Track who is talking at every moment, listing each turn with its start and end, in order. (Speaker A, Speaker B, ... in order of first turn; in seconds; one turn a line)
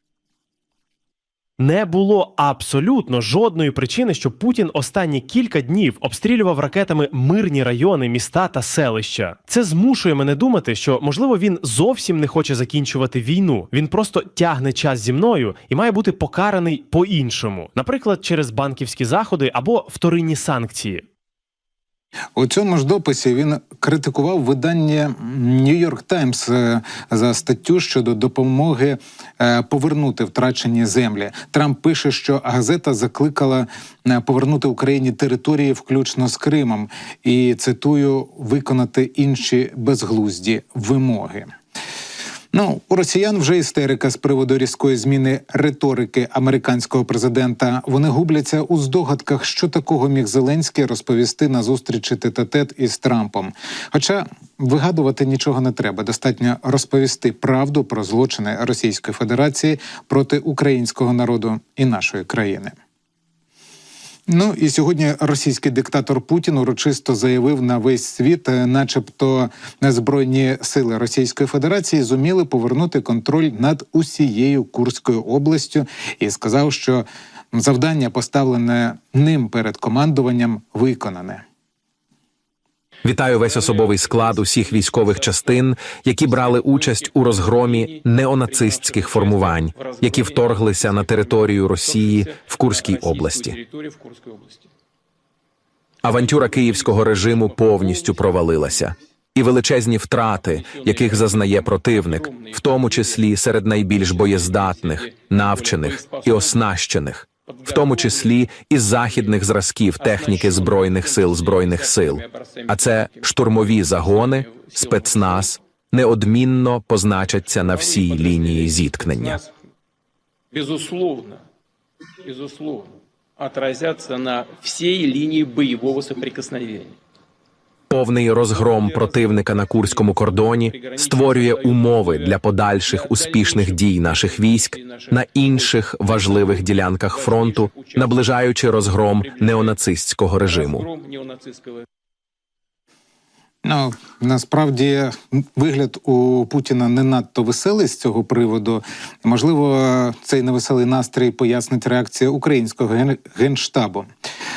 Speaker A: 1.6-21.1
Speaker B: 22.4-41.5
Speaker B: 42.5-62.7
Speaker B: 64.3-81.4
Speaker C: 83.0-93.6
Speaker D: 83.3-94.7
Speaker C: 96.0-119.4
Speaker D: 96.1-98.9
Speaker D: 100.4-103.3
Speaker D: 103.9-106.6
Speaker D: 107.5-109.4
Speaker D: 110.0-115.6
Speaker D: 117.6-119.5
Speaker D: 120.5-121.4
Speaker D: 122.2-127.0
Speaker C: 127.9-140.8
Speaker D: 128.5-138.2
Speaker D: 138.9-139.8
Speaker D: 140.4-141.9
Speaker B: 143.6-154.1